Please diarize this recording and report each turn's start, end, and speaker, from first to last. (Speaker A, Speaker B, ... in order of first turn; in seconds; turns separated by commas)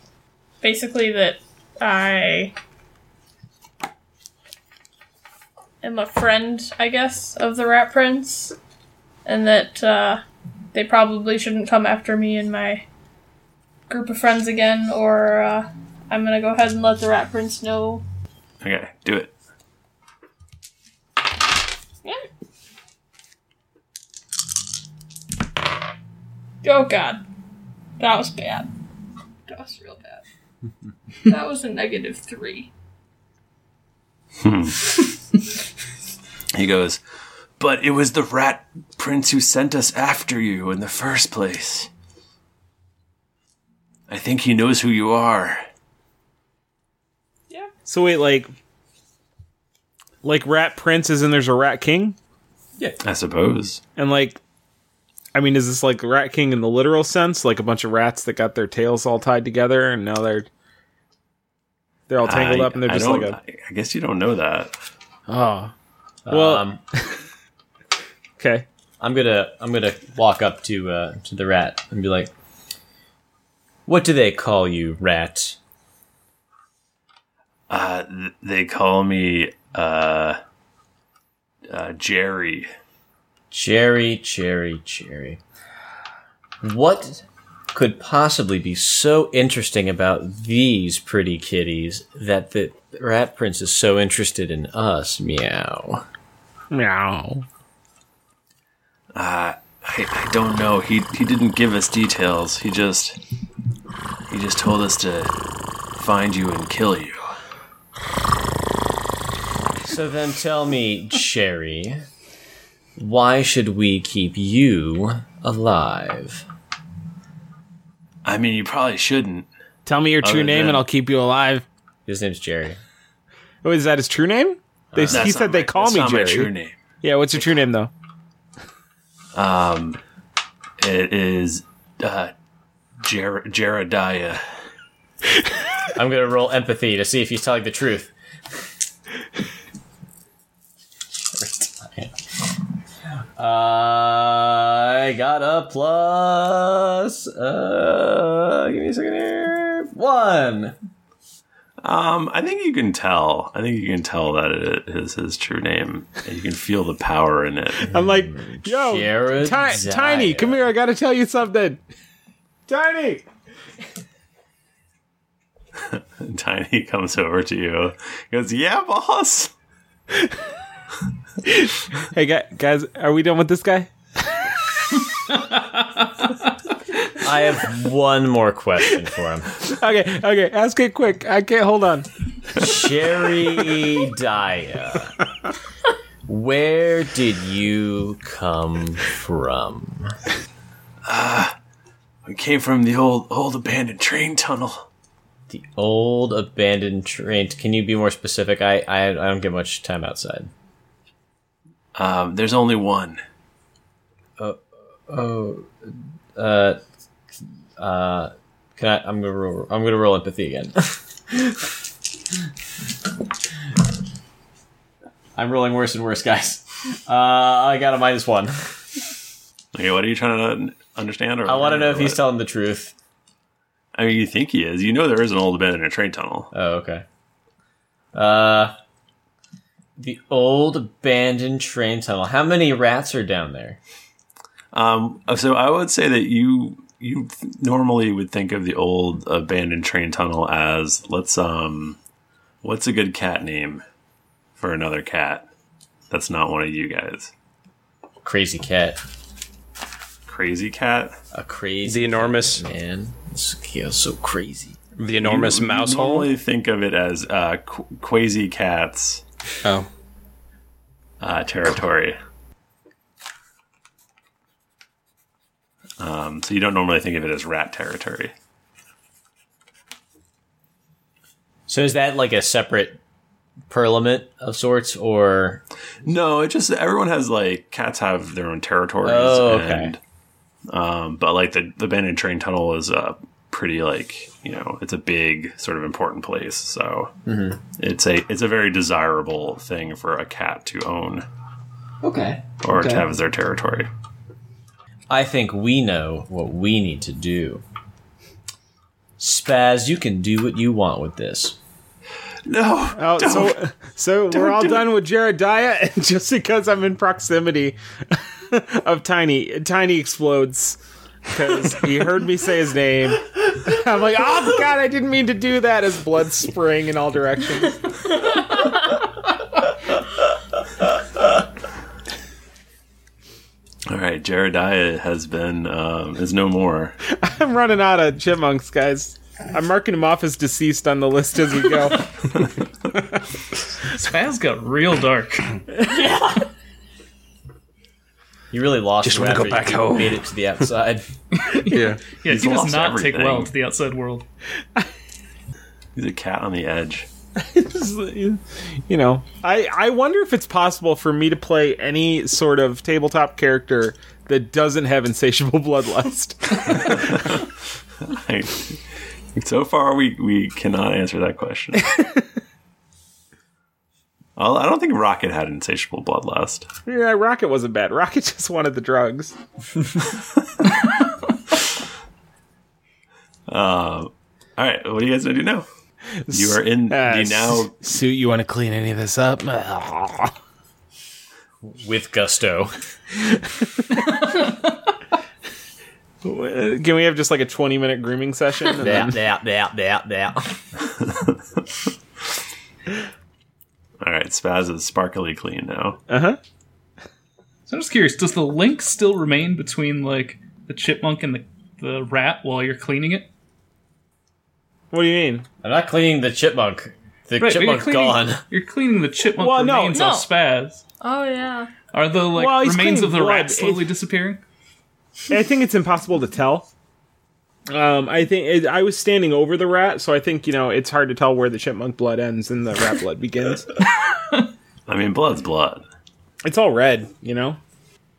Speaker A: 0.6-2.5, Speaker A: 5.8-8.5, Speaker A: 9.2-12.8, Speaker A: 13.9-18.0, Speaker B: 18.6-19.3, Speaker A: 26.6-27.2, Speaker A: 28.0-28.7, Speaker A: 29.5-30.2, Speaker A: 31.3-32.7, Speaker B: 34.4-35.0, Speaker B: 36.5-37.0, Speaker B: 37.6-41.9, Speaker B: 44.1-45.6, Speaker C: 47.9-48.5, Speaker C: 50.2-52.1, Speaker B: 53.0-53.8, Speaker C: 54.0-54.4, Speaker C: 55.3-60.5, Speaker C: 62.1-63.4, Speaker B: 62.2-64.7, Speaker C: 65.3-65.7, Speaker D: 66.2-66.8, Speaker C: 66.3-67.2, Speaker C: 68.4-68.6, Speaker D: 69.0-72.3, Speaker D: 73.9-75.6, Speaker B: 77.7-80.4, Speaker B: 81.7-82.7, Speaker D: 83.5-85.4, Speaker D: 86.6-96.0, Speaker C: 96.7-97.4, Speaker B: 99.1-103.2, Speaker B: 104.3-105.3, Speaker B: 105.9-107.3, Speaker D: 109.8-112.0, Speaker D: 113.0-116.4, Speaker B: 118.2-119.5, Speaker C: 119.9-121.6, Speaker B: 120.2-120.8, Speaker D: 122.0-122.8, Speaker C: 123.6-126.5, Speaker D: 124.9-125.3, Speaker B: 125.1-126.8, Speaker C: 127.0-127.9, Speaker B: 129.3-130.0, Speaker B: 130.8-132.3, Speaker B: 133.0-134.4, Speaker D: 135.9-138.1, Speaker D: 141.3-142.1, Speaker D: 143.4-150.7, Speaker B: 151.8-157.9, Speaker D: 157.9-160.7, Speaker C: 157.9-161.8, Speaker C: 162.7-163.2, Speaker B: 165.9-169.5, Speaker C: 171.4-173.9, Speaker E: 175.3-176.3, Speaker D: 177.1-179.6, Speaker C: 179.7-182.1, Speaker D: 182.6-185.1, Speaker D: 186.2-190.2, Speaker B: 191.1-191.5, Speaker B: 192.2-194.9, Speaker D: 195.5-200.5, Speaker B: 201.9-203.2, Speaker D: 204.4-206.8, Speaker D: 207.8-211.6, Speaker D: 215.4-218.6, Speaker B: 219.7-222.2, Speaker D: 221.4-222.9, Speaker B: 223.9-226.5, Speaker D: 226.5-227.0, Speaker D: 228.1-228.7, Speaker D: 230.0-233.8, Speaker B: 234.7-242.0, Speaker B: 242.6-243.8, Speaker B: 244.6-245.5, Speaker B: 246.1-247.3, Speaker D: 248.2-249.0, Speaker B: 250.3-251.2, Speaker D: 251.3-254.8, Speaker F: 251.8-252.6, Speaker F: 255.0-256.3, Speaker B: 255.2-259.2, Speaker B: 261.2-262.1, Speaker B: 266.0-268.3, Speaker D: 271.7-273.0, Speaker D: 273.7-275.6, Speaker B: 276.0-280.0, Speaker D: 279.0-279.9, Speaker B: 280.7-287.1, Speaker D: 287.2-287.6, Speaker B: 287.7-291.2, Speaker D: 292.0-293.1, Speaker B: 292.6-293.9, Speaker D: 295.1-297.6, Speaker D: 299.2-301.6, Speaker B: 302.4-303.6, Speaker C: 302.9-317.8, Speaker B: 304.3-304.9, Speaker B: 323.9-326.9, Speaker C: 327.2-332.2, Speaker E: 333.9-335.6, Speaker D: 338.5-341.0, Speaker F: 339.0-340.2, Speaker E: 341.3-344.2, Speaker F: 341.7-342.0, Speaker B: 342.3-343.5, Speaker B: 345.9-347.1, Speaker C: 347.4-357.3, Speaker B: 356.8-357.4, Speaker B: 358.0-358.8, Speaker B: 359.3-361.9, Speaker B: 364.4-366.7, Speaker C: 366.9-369.3, Speaker B: 373.5-375.6, Speaker C: 376.3-380.3, Speaker B: 376.3-377.8, Speaker D: 381.6-382.7, Speaker C: 386.2-389.1, Speaker D: 388.8-390.6, Speaker B: 391.1-391.3, Speaker B: 394.0-396.0, Speaker C: 396.1-396.4, Speaker E: 397.7-403.3, Speaker C: 404.9-405.4, Speaker D: 405.6-408.4, Speaker E: 407.4-410.8, Speaker C: 409.4-410.0, Speaker A: 409.9-410.3, Speaker A: 411.0-411.7, Speaker E: 411.9-414.4, Speaker C: 412.3-413.9, Speaker C: 415.3-416.7, Speaker C: 417.7-423.7, Speaker B: 424.9-425.8, Speaker C: 426.4-427.6